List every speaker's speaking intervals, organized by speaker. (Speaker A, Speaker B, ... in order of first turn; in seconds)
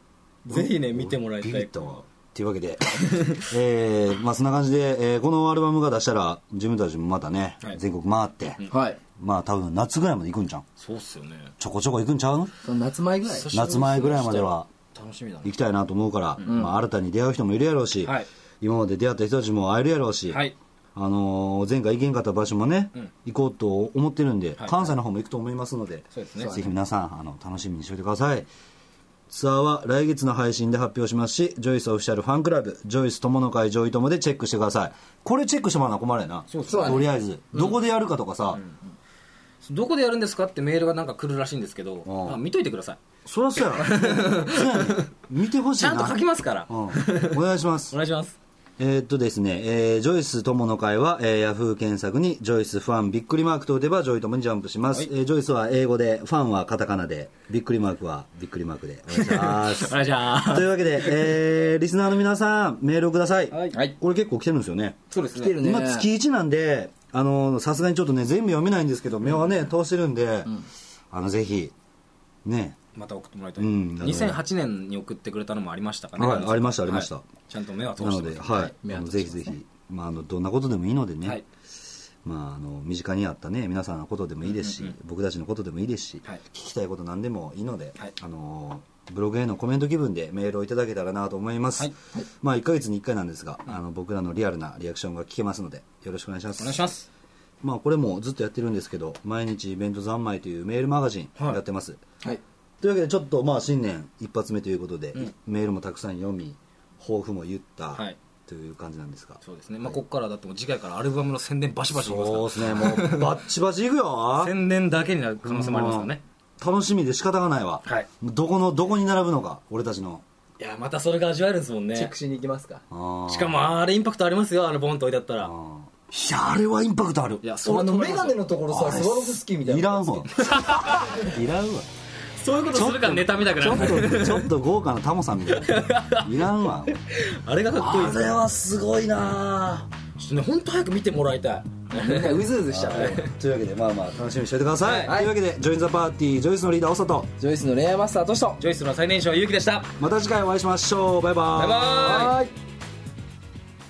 Speaker A: 0.5-2.0, 3.0-3.5, 10.8-11.5, 13.3-15.5, 20.3-20.6, 24.6-24.9, 26.1-26.6, 36.5-37.8, 38.5-38.8, 39.6-43.0, 43.7-45.1, 45.8-48.4, 59.1-61.3, 63.5-63.8, 65.1-65.6, 73.0-78.8, 84.5-84.9, 96.6-97.1, 109.4-113.3, 114.4-116.2, 120.6-122.1, 123.3-125.5, 127.4-128.4, 130.3-131.3, 132.4-134.5, 135.6-136.4, 137.1-138.4, 140.2-143.3, 144.8-145.1, 148.6-149.9, 151.6-152.4
Speaker B: 0.5-8.6, 9.2-10.7, 11.6-12.5, 13.5-14.7, 15.4-28.5, 29.3-38.6, 42.0-42.4, 43.3-46.2, 46.7-48.0, 48.8-65.0, 65.5-70.6, 71.1-71.7, 72.5-72.8, 73.6-74.4, 76.2-77.2, 78.0-81.4, 82.2-96.9, 97.6-102.0, 102.8-110.0, 111.9-114.5, 115.4-120.2, 122.9-123.7, 125.4-127.5, 128.7-131.9, 132.7-137.0, 137.7-139.9, 142.7-147.3, 150.0-152.3
Speaker C: 8.7-9.0, 12.6-13.5, 16.4-16.7, 26.4-26.7, 36.7-37.1, 65.1-66.1, 78.8-79.6, 122.0-122.8, 127.6-130.3, 133.6-134.1, 141.9-143.2, 145.1-145.3, 147.4-148.6, 152.0-152.5